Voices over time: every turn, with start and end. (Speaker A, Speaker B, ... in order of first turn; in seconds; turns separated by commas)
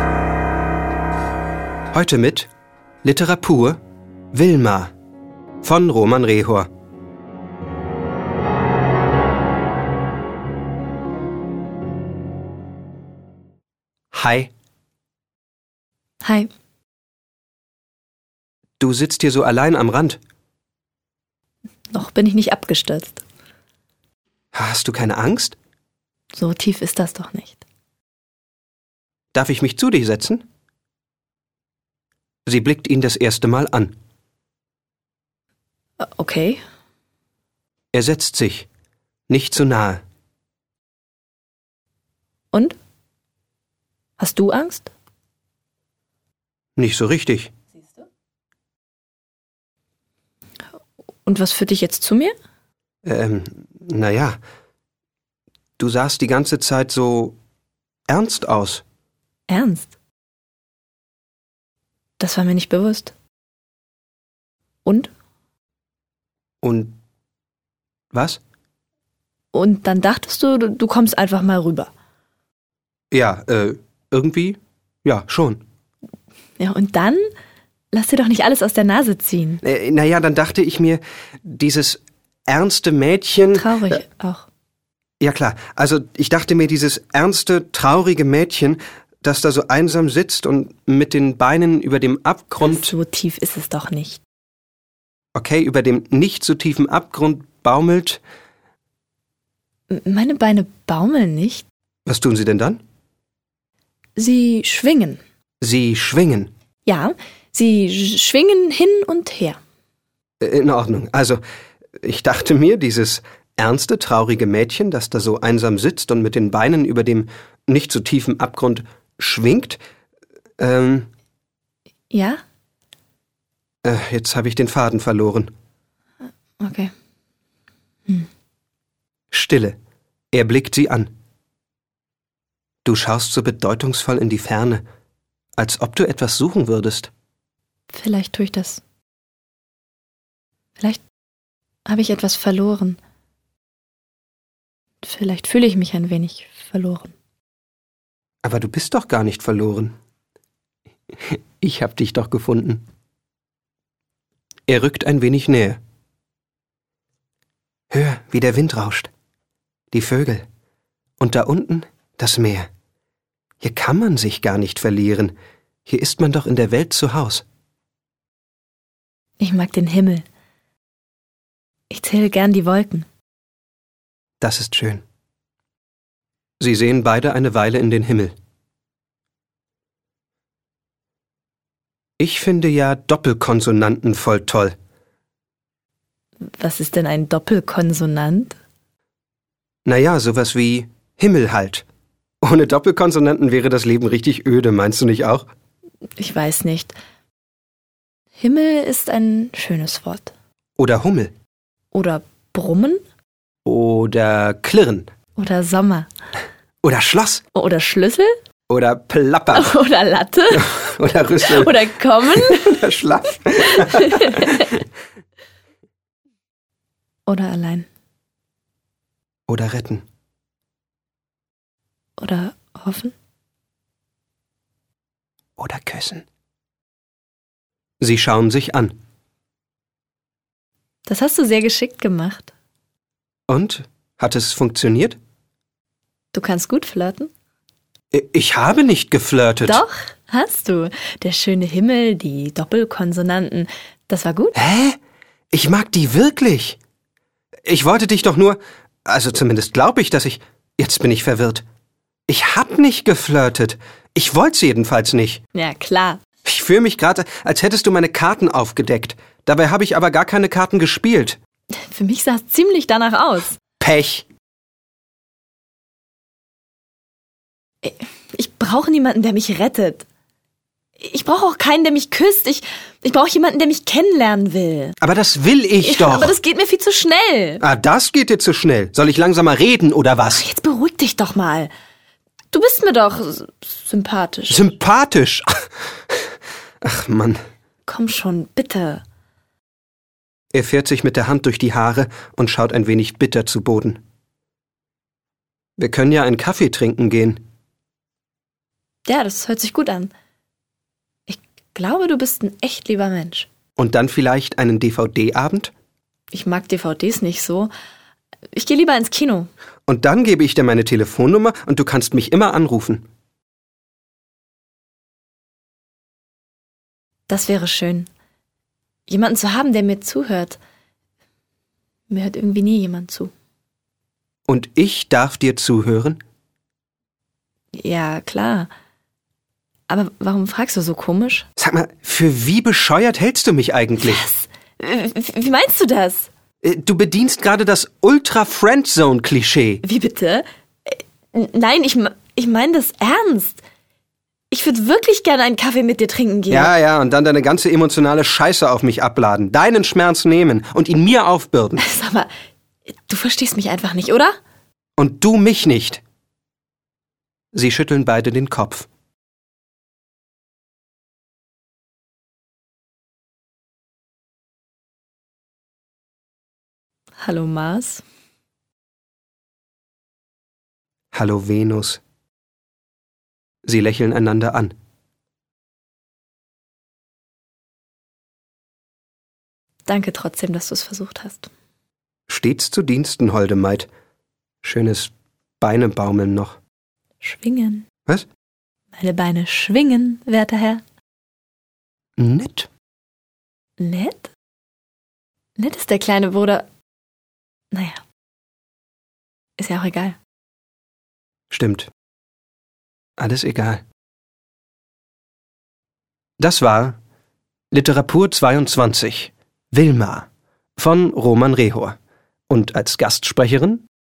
Speaker A: 1.9-2.5, Speaker A: 3.0-3.8, Speaker A: 4.3-4.9, Speaker A: 5.6-6.7, Speaker A: 14.1-14.5, Speaker B: 16.2-16.5, Speaker A: 18.8-20.2, Speaker B: 21.9-23.2, Speaker A: 24.5-25.6, Speaker B: 26.3-27.6, Speaker A: 29.3-30.4, Speaker A: 32.5-33.9, Speaker B: 36.0-36.6, Speaker A: 37.9-38.7, Speaker A: 39.3-40.0, Speaker B: 44.2-44.9, Speaker A: 46.8-47.5, Speaker B: 51.2-52.3, Speaker A: 53.0-54.4, Speaker A: 55.8-57.4, Speaker A: 58.1-58.8, Speaker B: 59.5-59.9, Speaker B: 62.2-63.1, Speaker B: 64.8-65.1, Speaker A: 66.6-67.0, Speaker A: 68.1-68.4, Speaker B: 69.5-71.9, Speaker A: 73.1-75.6, Speaker B: 76.6-77.2, Speaker B: 77.9-79.6, Speaker A: 79.6-84.0, Speaker B: 83.5-84.5, Speaker A: 85.2-92.9, Speaker B: 92.6-94.2, Speaker A: 95.3-98.2, Speaker B: 99.9-101.7, Speaker A: 102.0-102.8, Speaker B: 104.2-105.2, Speaker A: 105.6-106.5, Speaker B: 106.9-109.6, Speaker A: 110.4-111.4, Speaker A: 112.0-119.8, Speaker A: 120.6-121.1, Speaker B: 122.1-122.4, Speaker A: 123.8-125.5, Speaker B: 126.6-126.9, Speaker A: 129.3-129.8, Speaker A: 130.3-131.1, Speaker A: 132.8-134.8, Speaker A: 135.6-137.1, Speaker B: 137.9-138.8, Speaker B: 141.9-143.0, Speaker B: 145.0-147.1, Speaker A: 148.4-149.9, Speaker A: 151.2-152.8, Speaker A: 154.7-155.8, Speaker A: 157.9-159.1, Speaker A: 159.9-160.4, Speaker A: 161.2-162.7, Speaker A: 163.6-165.3, Speaker A: 165.9-167.4, Speaker B: 169.4-170.2, Speaker B: 171.9-173.1, Speaker A: 174.4-175.0, Speaker A: 176.6-178.3, Speaker A: 182.2-184.8, Speaker B: 186.5-188.6, Speaker A: 189.9-191.9, Speaker A: 192.4-195.5, Speaker B: 196.2-197.0, Speaker B: 198.4-200.3, Speaker A: 200.8-201.3, Speaker B: 201.9-203.0, Speaker A: 203.7-205.1, Speaker B: 205.4-206.1, Speaker A: 206.8-207.4, Speaker B: 207.5-208.3, Speaker A: 208.7-209.8, Speaker B: 209.5-212.8, Speaker A: 210.5-214.8, Speaker B: 213.7-214.7, Speaker B: 217.3-217.9, Speaker A: 219.5-220.0, Speaker B: 222.2-223.1, Speaker A: 225.6-226.2, Speaker A: 228.0-228.9, Speaker B: 231.1-232.5, Speaker A: 233.5-235.2, Speaker B: 236.3-237.3, Speaker A: 238.1-239.8, Speaker B: 239.6-244.6, Speaker A: 244.6-245.0, Speaker A: 245.5-246.8, Speaker A: 247.7-251.6, Speaker A: 252.3-255.4, Speaker B: 255.5-256.2, Speaker A: 256.4-261.4, Speaker B: 261.8-263.6, Speaker A: 263.8-264.3, Speaker B: 267.8-270.1, Speaker B: 271.0-275.0, Speaker A: 275.0-276.4, Speaker B: 275.8-277.6, Speaker A: 277.6-280.4, Speaker B: 280.3-281.7, Speaker B: 282.5-284.7, Speaker A: 284.5-285.5, Speaker A: 286.8-287.4, Speaker B: 287.9-289.0, Speaker A: 290.5-294.0, Speaker A: 295.8-297.4, Speaker B: 299.1-300.1, Speaker B: 301.3-303.5, Speaker A: 303.8-305.7, Speaker B: 306.3-307.7, Speaker B: 308.5-309.5, Speaker A: 309.9-313.1, Speaker B: 317.3-318.1, Speaker B: 319.1-320.6, Speaker B: 322.1-323.3, Speaker A: 324.5-326.2, Speaker B: 327.8-328.7, Speaker B: 329.9-331.4, Speaker A: 331.6-334.2, Speaker B: 334.0-336.3, Speaker A: 336.6-339.8, Speaker B: 339.8-343.6, Speaker B: 344.5-346.7, Speaker A: 346.5-351.8, Speaker B: 351.8-352.3, Speaker B: 353.1-354.3, Speaker A: 355.0-356.0, Speaker A: 357.5-358.9, Speaker B: 367.2-368.0, Speaker A: 371.1-372.0, Speaker A: 373.6-374.7, Speaker B: 379.9-381.5, Speaker A: 382.3-383.9, Speaker A: 384.6-385.1, Speaker A: 385.6-386.6, Speaker B: 387.2-387.9, Speaker B: 388.9-390.8, Speaker A: 392.2-392.7, Speaker B: 393.8-394.3, Speaker B: 395.6-396.7, Speaker B: 397.7-398.0, Speaker B: 399.6-400.2, Speaker A: 401.5-401.9, Speaker A: 403.2-403.8, Speaker A: 406.4-407.0, Speaker A: 407.7-410.3, Speaker A: 410.8-411.9, Speaker A: 412.5-413.8